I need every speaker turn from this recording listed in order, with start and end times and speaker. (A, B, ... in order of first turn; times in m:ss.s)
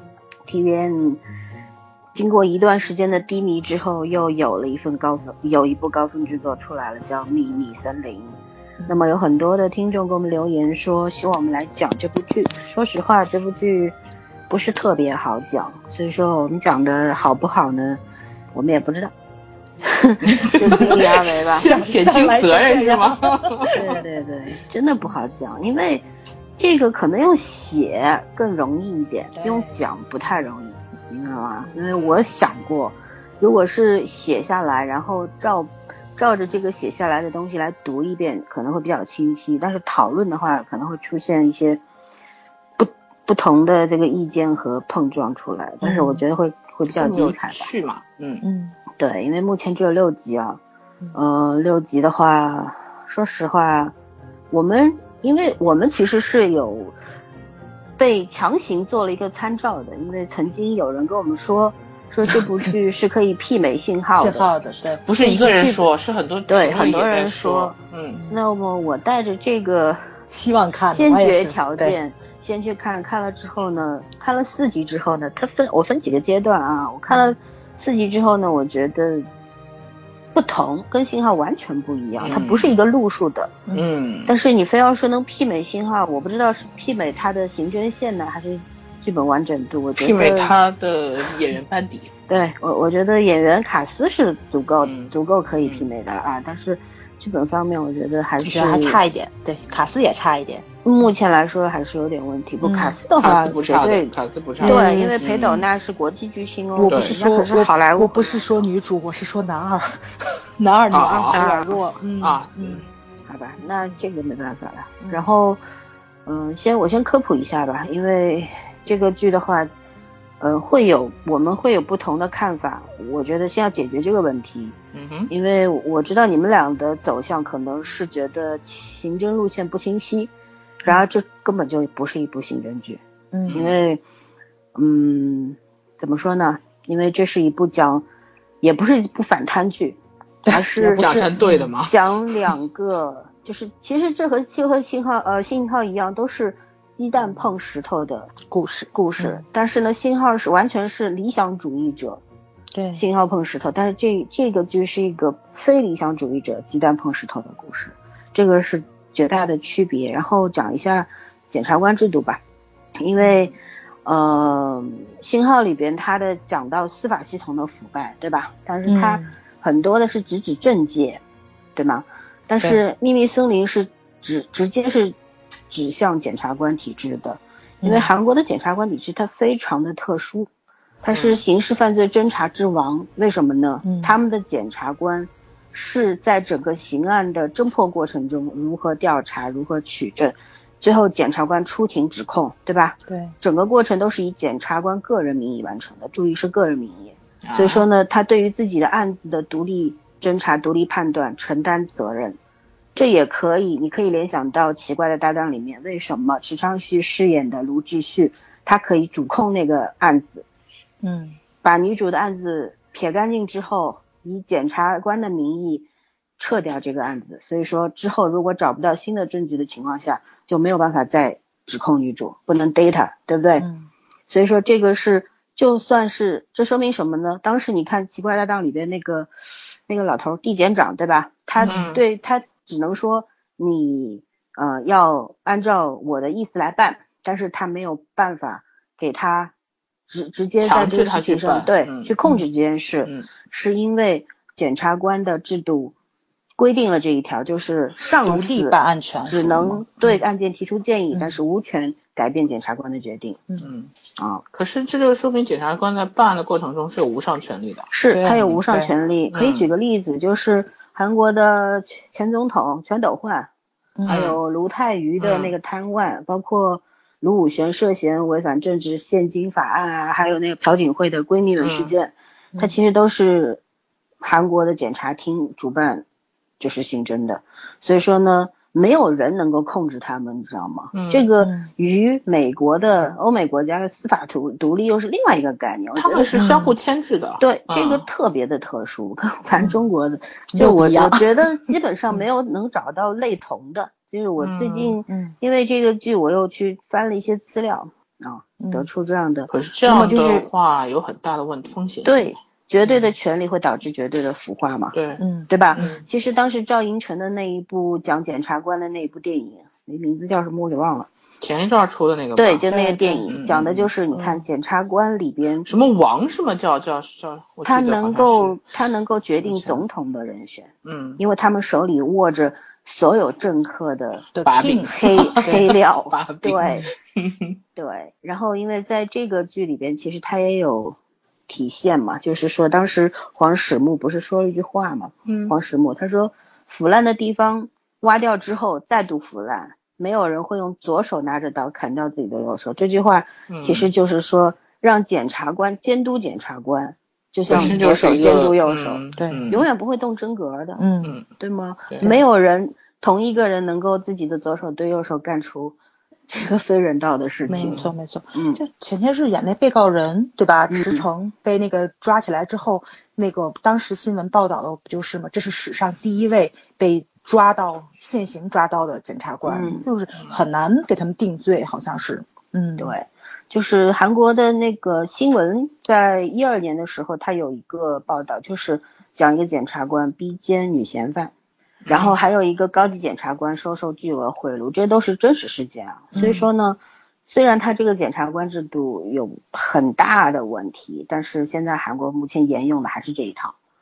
0:00.5-0:01.2 A
0:02.1-0:08.4 A
0:08.9-0:14.0 A
0:14.5-0:18.0 A
0:18.5-0:19.1 A
0:19.8-0:21.7 A
0:20.2-0:23.8 B
0:21.6-0:24.0 C
0:23.7-0:26.0 A
0:26.6-0:41.8 A
0:29.4-0:29.8 C
0:31.9-0:32.3 B
0:42.8-0:47.7 A
0:45.8-0:46.2 C
0:46.9-0:48.4 B
0:48.4-0:48.8 C
0:49.0-0:50.6 A
0:51.1-0:53.9 A
0:54.5-0:57.0 A
0:58.0-1:04.5 A
1:04.1-1:05.0 C
1:05.0-1:08.2 B
1:05.2-1:05.8 A
1:06.5-1:07.8 A
1:08.3-1:10.2 A
1:10.3-1:12.0 C
1:10.9-1:19.3 A
1:17.1-1:17.3 C
1:20.3-1:23.6 A
1:22.2-1:22.7 B
1:23.7-1:24.3 B
1:24.2-1:30.6 A
1:30.0-1:32.1 B
1:32.3-1:39.0 A
1:34.8-1:35.8 B
1:38.4-1:40.6 C
1:40.8-1:48.6 A
1:42.6-1:43.0 C
1:43.1-1:45.6 B
1:44.6-1:45.6 C
1:46.7-1:50.0 C
1:46.9-1:47.1 B
1:50.6-1:52.8 C
1:50.9-1:51.4 B
1:51.3-1:51.8 A
1:52.2-1:52.9 B
1:53.3-1:55.6 A
1:55.0-1:55.3 C
1:56.2-1:59.7 A
2:00.4-2:04.8 A
2:04.9-2:05.3 B
2:05.3-2:10.3 A
2:10.8-2:14.0 A
2:13.3-2:13.6 C
2:13.5-2:13.8 B
2:14.8-2:18.0 A
2:18.6-2:21.2 A
2:20.4-2:21.7 C
2:20.9-2:22.0 B
2:21.8-2:28.3 A
2:28.5-2:29.4 C
2:28.9-2:32.2 A
2:32.7-2:33.0 C
2:32.9-2:42.4 A
2:43.0-2:51.2 A
2:48.8-2:49.3 C
2:51.8-2:55.2 A
2:55.7-3:00.5 A
2:57.8-2:58.1 C
3:01.0-3:22.4 A
3:01.1-3:01.4 B
3:03.8-3:04.1 C
3:13.1-3:13.3 C
3:17.4-3:17.8 B
3:22.9-3:30.4 A
3:31.0-3:31.4 C
3:31.6-3:35.8 A
3:36.4-3:43.7 A
3:43.6-3:43.9 C
3:44.3-3:49.3 A
3:49.9-3:59.5 A
3:51.6-3:51.9 C
3:51.6-3:52.0 B
4:00.1-4:05.9 A
4:00.6-4:02.1 B
4:06.6-4:08.8 A
4:08.0-4:10.2 C
4:09.3-4:13.4 A
4:11.1-4:11.4 C
4:13.6-4:13.9 B
4:14.2-4:14.4 A
4:14.5-4:18.6 B
4:17.9-4:23.5 A
4:18.1-4:18.9 C
4:19.3-4:19.7 B
4:24.0-4:24.3 C
4:24.1-4:24.4 B
4:24.1-4:33.6 A
4:25.2-4:25.5 B
4:31.6-4:31.9 B
4:34.2-4:36.0 A
4:36.6-4:46.4 A
4:40.9-4:41.2 B
4:41.4-4:41.7 C
4:46.0-4:48.0 B
4:46.3-4:46.8 C
4:47.4-5:00.4 A
4:50.5-4:51.3 C
4:54.4-4:55.0 B
4:55.1-4:55.4 C
4:58.6-4:58.9 C
4:59.5-5:02.3 B
4:59.9-5:00.3 C
5:02.0-5:05.0 A
5:02.8-5:03.1 B
5:04.9-5:05.2 B
5:05.2-5:06.0 C
5:05.5-5:11.1 A
5:05.8-5:06.0 B
5:11.4-5:12.7 B
5:12.4-5:15.7 A
5:12.7-5:13.3 C
5:13.3-5:14.2 B
5:15.6-5:18.7 B
5:17.6-5:24.3 A
5:19.4-5:19.8 B
5:20.8-5:21.2 B
5:24.3-5:25.6 C
5:24.4-5:27.6 B
5:24.8-5:26.8 A
5:27.8-5:50.8 A
5:35.2-5:35.6 B
5:43.5-5:43.9 B
5:47.5-5:49.6 B
5:47.5-5:47.8 C
5:49.2-5:49.5 C
5:50.8-5:51.2 C
5:51.0-5:51.3 B
5:51.4-5:55.8 A
5:56.3-5:58.6 A
5:57.5-6:12.9 C
5:57.5-5:57.9 B
6:00.7-6:01.0 A
6:09.5-6:09.8 A
6:12.8-6:21.3 A
6:21.8-6:22.2 B
6:21.9-6:33.5 A
6:26.1-6:26.4 C